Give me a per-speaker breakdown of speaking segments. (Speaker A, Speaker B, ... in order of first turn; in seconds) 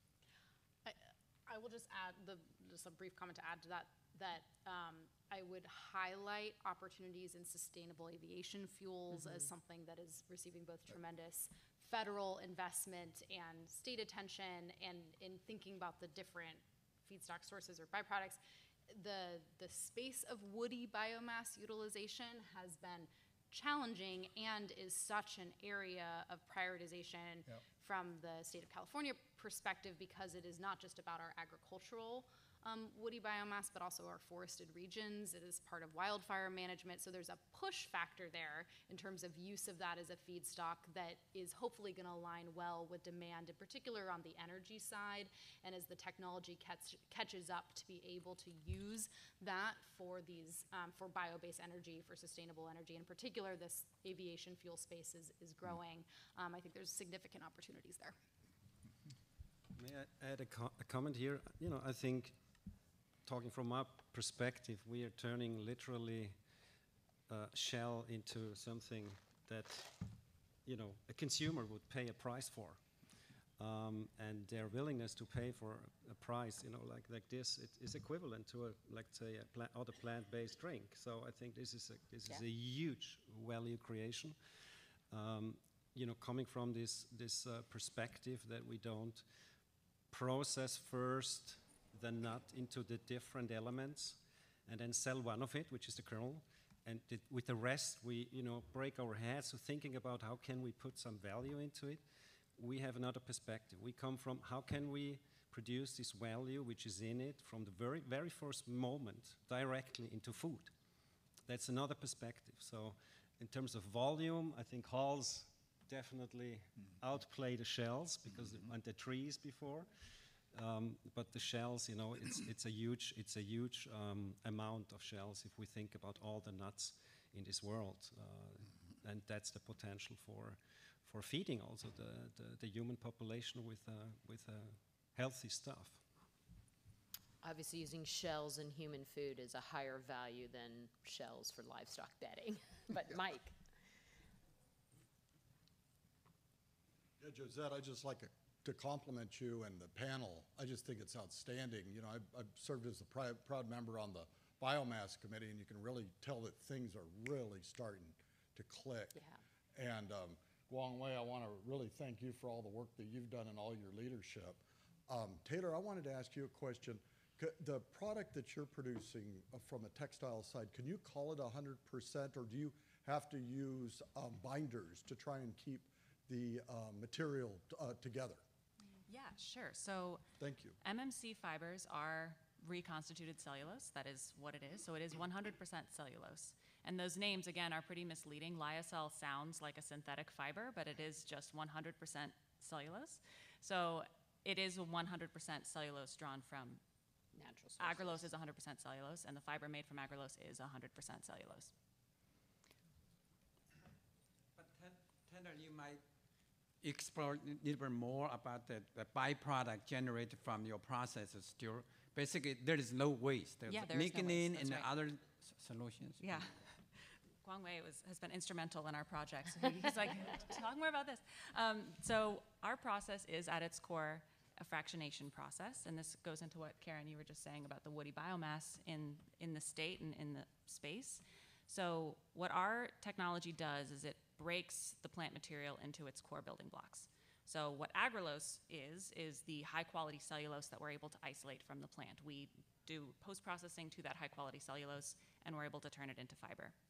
Speaker A: 0.8-58.1
Speaker B: 59.8-62.3, 63.2-66.3, 67.3-70.0, 70.6-72.8, 73.6-84.3, 85.1-89.2, 90.1-102.0, 102.5-110.7, 111.5-119.9, 120.5-136.0
Speaker C: 137.4-143.5, 159.1-159.4, 197.3-198.3
Speaker D: 147.2-159.2, 159.7-178.4, 180.4-180.8
Speaker E: 179.1-180.2, 180.8-196.8, 197.8-201.7, 213.7-214.9, 216.2-246.7
Speaker F: 204.6-206.0, 206.8-216.5